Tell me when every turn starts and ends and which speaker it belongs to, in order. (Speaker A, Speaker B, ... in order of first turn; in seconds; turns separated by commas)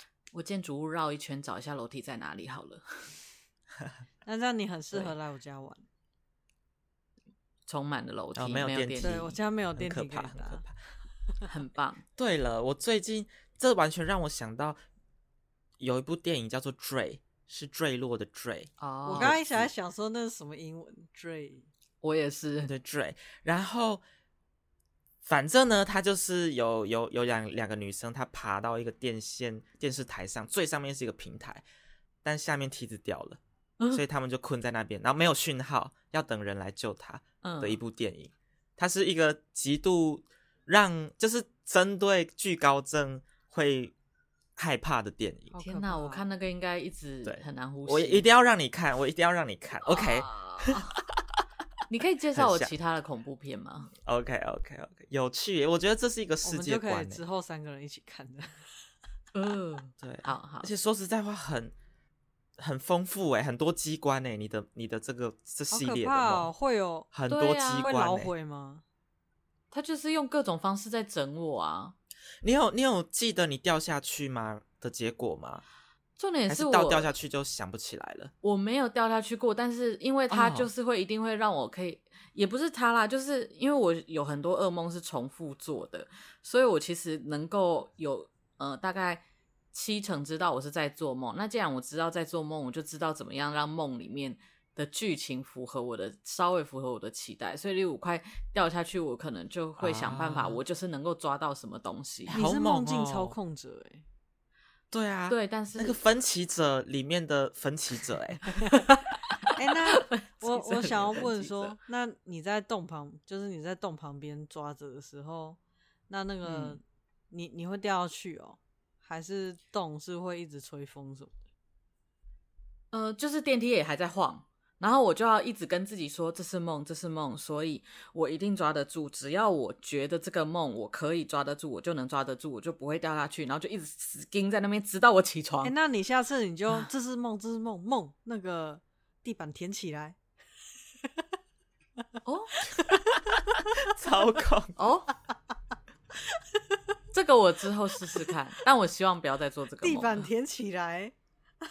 Speaker A: 0.3-3.1, Speaker B: 4.2-5.8, Speaker A: 7.7-9.4, Speaker C: 8.4-10.8, Speaker B: 9.0-10.7, Speaker A: 11.5-12.1, Speaker C: 12.2-14.8, Speaker C: 15.8-19.7, Speaker A: 18.8-19.4, Speaker B: 19.1-21.7, Speaker A: 22.0-22.7, Speaker C: 22.6-24.0, Speaker C: 25.2-31.6, Speaker C: 32.2-33.4, Speaker C: 33.9-43.9, Speaker A: 37.4-37.8, Speaker C: 44.6-45.5, Speaker B: 45.5-46.3, Speaker A: 45.6-48.3, Speaker C: 47.2-50.8, Speaker A: 49.8-51.0, Speaker A: 51.9-53.9, Speaker C: 52.4-52.7, Speaker C: 54.0-57.2, Speaker B: 56.4-58.7, Speaker A: 59.3-60.7, Speaker C: 60.0-61.7, Speaker C: 62.6-66.5, Speaker B: 65.7-67.1, Speaker C: 67.1-68.3, Speaker A: 67.3-67.9, Speaker B: 67.8-68.8, Speaker A: 69.7-72.0, Speaker C: 72.4-75.7, Speaker A: 76.2-77.1, Speaker C: 76.5-78.3, Speaker A: 78.4-102.4, Speaker C: 80.3-80.7, Speaker C: 99.8-100.6, Speaker C: 102.3-103.4, Speaker B: 102.3-104.0, Speaker C: 104.9-108.4, Speaker A: 105.3-106.0, Speaker A: 108.6-111.8, Speaker B: 109.5-121.4, Speaker A: 116.5-116.8, Speaker A: 122.9-135.7, Speaker B: 135.6-140.2, Speaker A: 142.2-142.7, Speaker B: 142.6-143.3, Speaker C: 143.8-144.8, Speaker A: 144.8-145.2, Speaker A: 147.1-150.3, Speaker B: 149.8-151.1